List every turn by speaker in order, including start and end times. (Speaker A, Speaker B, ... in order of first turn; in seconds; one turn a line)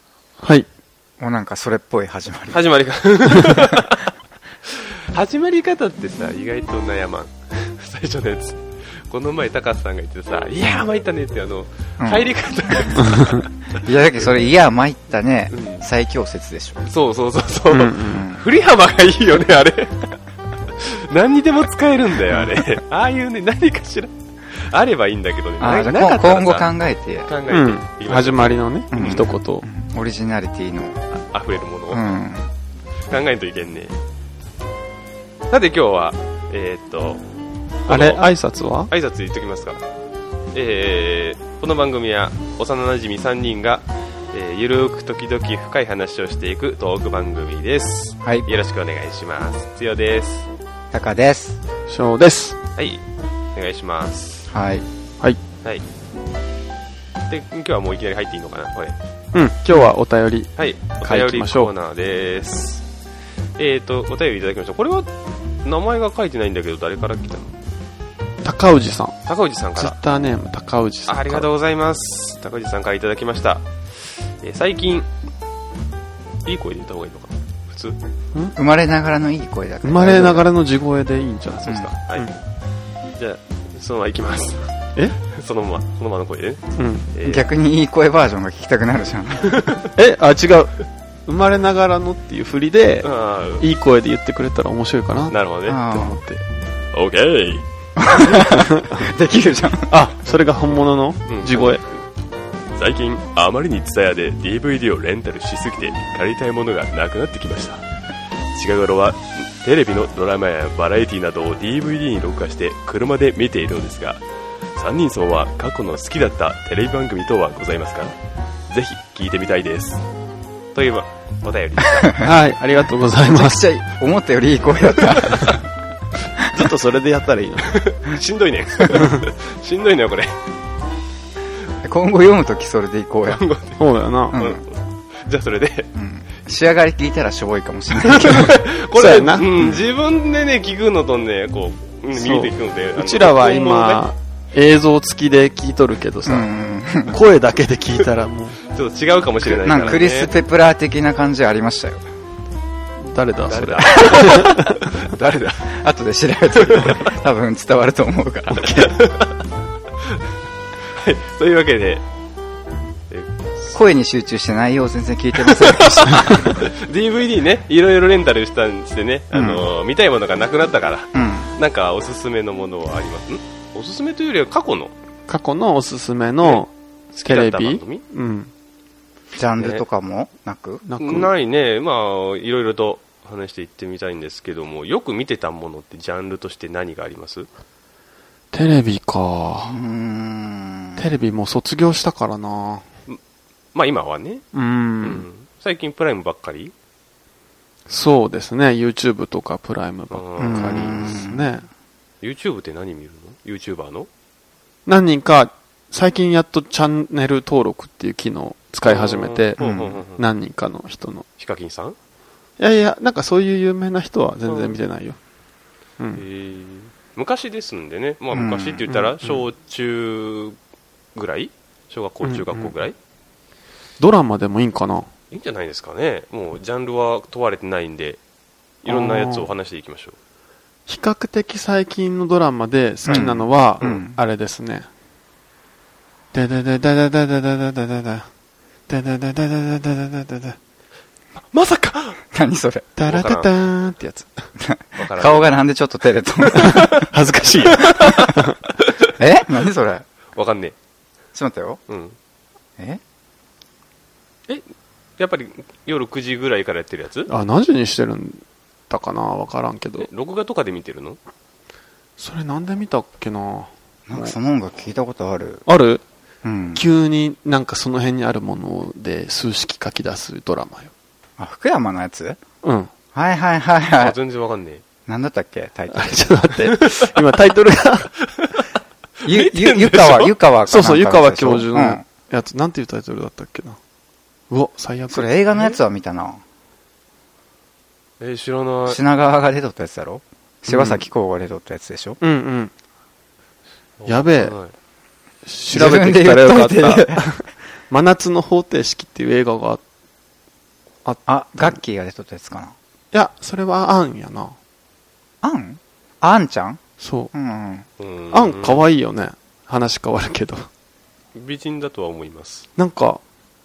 Speaker A: 0.4-0.7
Speaker B: 1.2-2.6
Speaker C: 2.5-4.1
Speaker C: 4.7-13.5
Speaker B: 12.0-12.9
Speaker A: 13.0-13.4
Speaker B: 13.7-16.8
Speaker C: 15.5-15.8
Speaker C: 16.8-20.2
Speaker A: 17.7-18.2
Speaker B: 18.1-18.5
Speaker C: 20.8-26.7
Speaker B: 22.3-22.6
Speaker B: 25.6-27.3
Speaker C: 27.3-29.3
Speaker A: 27.5-29.7
Speaker B: 28.9-31.0
Speaker C: 31.1-32.1
Speaker B: 31.9-32.5
Speaker C: 33.1-34.0
Speaker C: 35.5-37.2
Speaker C: 37.9-38.3
Speaker A: 37.9-38.9
Speaker C: 38.9-39.8
Speaker C: 40.5-50.5
Speaker B: 50.9-51.6
Speaker A: 51.9-52.6
Speaker C: 52.8-53.0
Speaker C: 53.5-54.5
Speaker B: 54.5-54.9
Speaker C: 57.3-58.9
Speaker A: 59.3-61.7
Speaker C: 60.6-62.9
Speaker C: 63.6-65.1
Speaker C: 65.6-67.5
Speaker A: 68.4-69.2
Speaker C: 69.2-70.0
Speaker A: 69.8-71.5
Speaker C: 71.1-75.1
Speaker C: 76.4-78.0
Speaker B: 78.5-80.5
Speaker A: 79.8-82.3
Speaker C: 81.6-82.3
Speaker C: 83.2-87.5
Speaker A: 86.8-87.1
Speaker B: 87.2-89.6
Speaker C: 89.5-89.9
Speaker A: 89.9-96.4
Speaker C: 93.0-93.6
Speaker C: 95.3-95.8
Speaker B: 95.7-96.2
Speaker C: 96.9-97.7
Speaker B: 98.0-99.9
Speaker A: 98.4-99.0
Speaker A: 99.9-101.8
Speaker C: 101.3-101.9
Speaker C: 102.8-107.8
Speaker C: 108.5-114.2
Speaker C: 114.7-118.1
Speaker C: 118.7-120.0
Speaker C: 120.7-122.2
Speaker B: 121.9-122.3
Speaker A: 122.2-123.6
Speaker B: 123.2-125.6
Speaker C: 125.0-125.6
Speaker B: 126.4-126.7
Speaker A: 126.5-127.8
Speaker C: 127.6-130.4
Speaker A: 128.9-129.2
Speaker B: 131.8-133.4
Speaker C: 133.3-133.8
Speaker A: 133.8-134.4
Speaker C: 134.3-135.9
Speaker B: 134.3-134.6
Speaker B: 135.9-138.6
Speaker C: 138.0-144.0
Speaker A: 138.9-139.8
Speaker A: 142.1-146.5
Speaker B: 146.2-147.2
Speaker A: 147.1-148.6
Speaker C: 148.7-150.3
Speaker A: 149.4-150.0
Speaker B: 149.6-152.1
Speaker A: 153.0-154.8
Speaker C: 153.5-155.7
Speaker B: 155.6-158.9
Speaker C: 156.5-157.1
Speaker C: 158.6-159.3
Speaker C: 160.9-162.0
Speaker C: 163.1-163.8
Speaker B: 163.7-166.7
Speaker C: 165.4-174.9
Speaker A: 169.3-169.7
Speaker B: 171.1-171.5
Speaker A: 175.3-176.7
Speaker C: 176.4-178.0
Speaker A: 177.2-178.5
Speaker B: 179.3-180.8
Speaker A: 180.8-181.3
Speaker C: 181.0-187.5
Speaker A: 188.5-189.8
Speaker B: 189.7-191.1
Speaker A: 191.0-192.8
Speaker C: 193.7-194.4
Speaker A: 194.5-195.3
Speaker C: 195.0-196.7
Speaker A: 197.9-201.7
Speaker C: 200.1-201.1
Speaker B: 200.4-201.5
Speaker C: 202.2-204.1
Speaker A: 204.8-211.2
Speaker C: 208.8-210.2
Speaker C: 211.4-211.9
Speaker A: 212.6-215.2
Speaker C: 214.5-214.8
Speaker C: 216.2-220.6
Speaker B: 218.3-218.8
Speaker A: 218.9-219.4
Speaker C: 221.1-222.9
Speaker A: 222.2-222.7
Speaker A: 224.0-225.1
Speaker C: 225.3-228.2
Speaker C: 228.8-230.2
Speaker A: 228.9-229.5
Speaker A: 230.9-234.9
Speaker B: 233.1-234.2
Speaker A: 236.3-238.3
Speaker A: 238.9-240.6
Speaker C: 241.5-242.2
Speaker B: 242.3-242.9
Speaker A: 243.0-244.3
Speaker C: 243.1-243.5
Speaker B: 244.6-247.0
Speaker C: 245.0-245.5
Speaker C: 246.5-247.1
Speaker A: 246.6-248.6
Speaker C: 247.6-249.1
Speaker B: 249.2-250.1
Speaker C: 250.3-250.7
Speaker B: 251.3-251.8
Speaker C: 251.9-252.2
Speaker C: 255.2-257.3
Speaker A: 257.3-260.1
Speaker C: 260.0-261.2
Speaker A: 262.2-264.3
Speaker B: 264.1-265.6
Speaker A: 265.6-266.0
Speaker B: 266.4-266.8
Speaker A: 266.7-270.9
Speaker B: 271.4-272.4
Speaker A: 272.6-272.9
Speaker B: 273.1-274.2
Speaker C: 273.9-274.8
Speaker B: 275.1-276.2
Speaker A: 275.9-278.1
Speaker C: 276.7-277.1
Speaker C: 278.2-278.6
Speaker C: 279.2-280.3
Speaker B: 279.2-282.0
Speaker A: 280.7-283.8
Speaker A: 284.5-285.7
Speaker B: 285.1-286.4
Speaker C: 288.2-289.0
Speaker B: 288.9-292.2
Speaker A: 290.7-291.0
Speaker A: 292.2-292.7
Speaker C: 294.0-294.7
Speaker A: 294.1-294.6
Speaker A: 295.4-299.8
Speaker B: 295.7-297.3
Speaker A: 301.0-301.8
Speaker B: 301.3-302.7
Speaker A: 303.1-304.5
Speaker B: 305.4-306.8
Speaker A: 307.0-307.3
Speaker B: 307.3-307.9
Speaker C: 308.0-308.8
Speaker A: 308.3-310.7
Speaker C: 311.3-312.7
Speaker A: 312.8-313.2